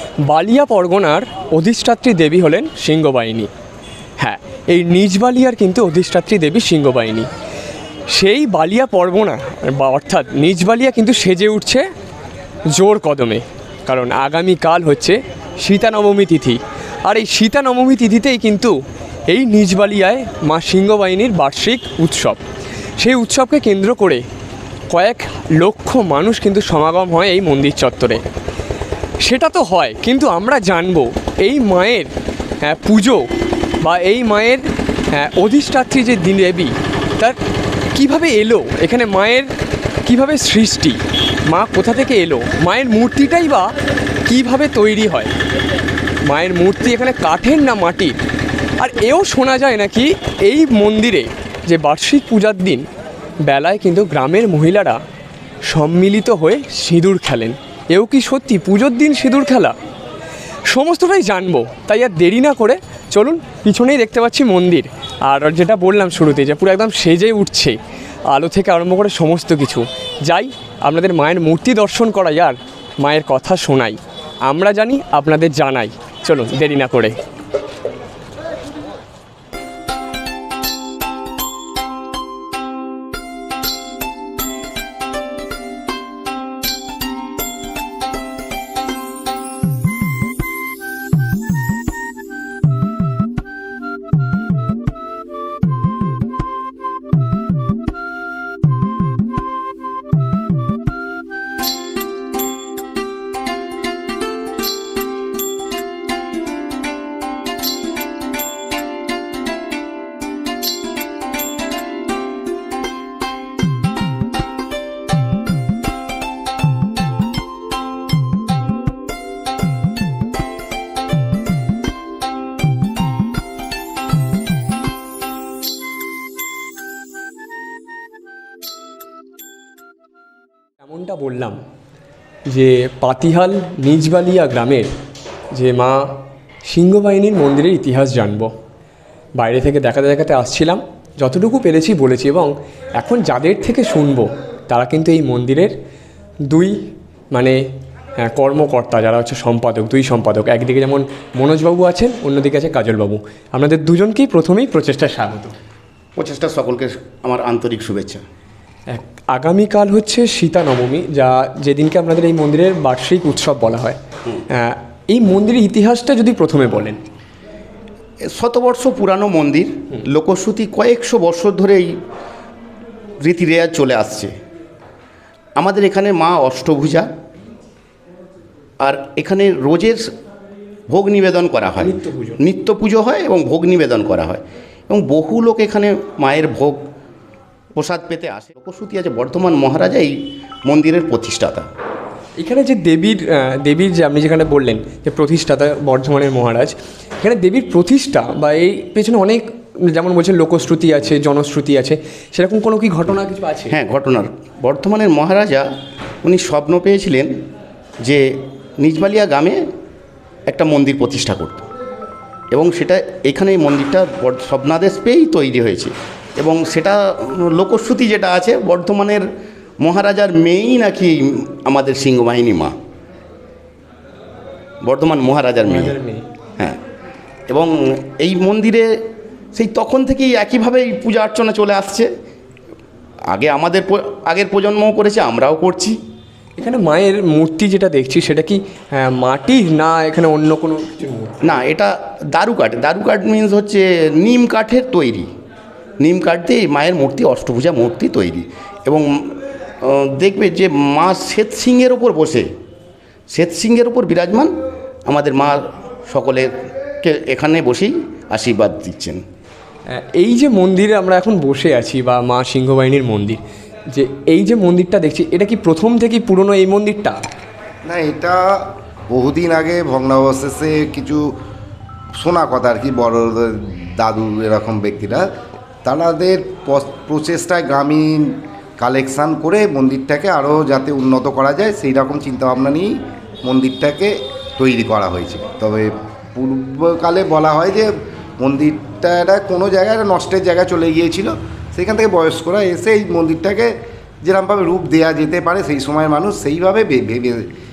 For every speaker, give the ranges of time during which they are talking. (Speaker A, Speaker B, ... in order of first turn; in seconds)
Speaker A: 0.3-3.5, 4.2-7.3, 8.1-11.8, 12.7-18.7, 19.3-22.4, 23.0-24.2, 24.9-28.2, 29.2-32.1, 32.6-33.3, 33.8-37.4, 37.9-39.5, 40.0-43.7, 44.2-45.3, 46.2-48.1, 48.8-52.9, 53.4-55.0, 55.7-59.7, 60.7-67.8, 68.3-77.2, 130.8-131.6, 132.5-134.9, 135.5-136.0, 136.7-138.5, 139.4-145.7, 146.5-146.8, 147.3-147.6, 148.2-155.5, 158.9-164.0, 164.5-167.0, 181.8-182.4, 192.4-203.7, 225.6-226.2, 236.6-241.3, 259.9-267.2
Speaker B: 156.2-158.2, 168.3-171.9, 173.2-174.3, 175.6-177.1, 178.8-180.0, 180.9-186.8, 187.8-191.7, 203.7-205.7, 206.2-207.3, 208.8-209.6, 210.5-211.6, 212.5-219.2, 219.8-222.7, 224.8-225.9, 227.5-228.9, 229.5-232.1, 233.3-236.0, 241.4-245.3, 246.0-252.5, 253.3-254.5, 255.1-256.5, 257.0-259.2
Speaker C: 267.8-271.2, 272.2-275.2, 275.8-282.9, 283.4-293.7, 294.2-297.5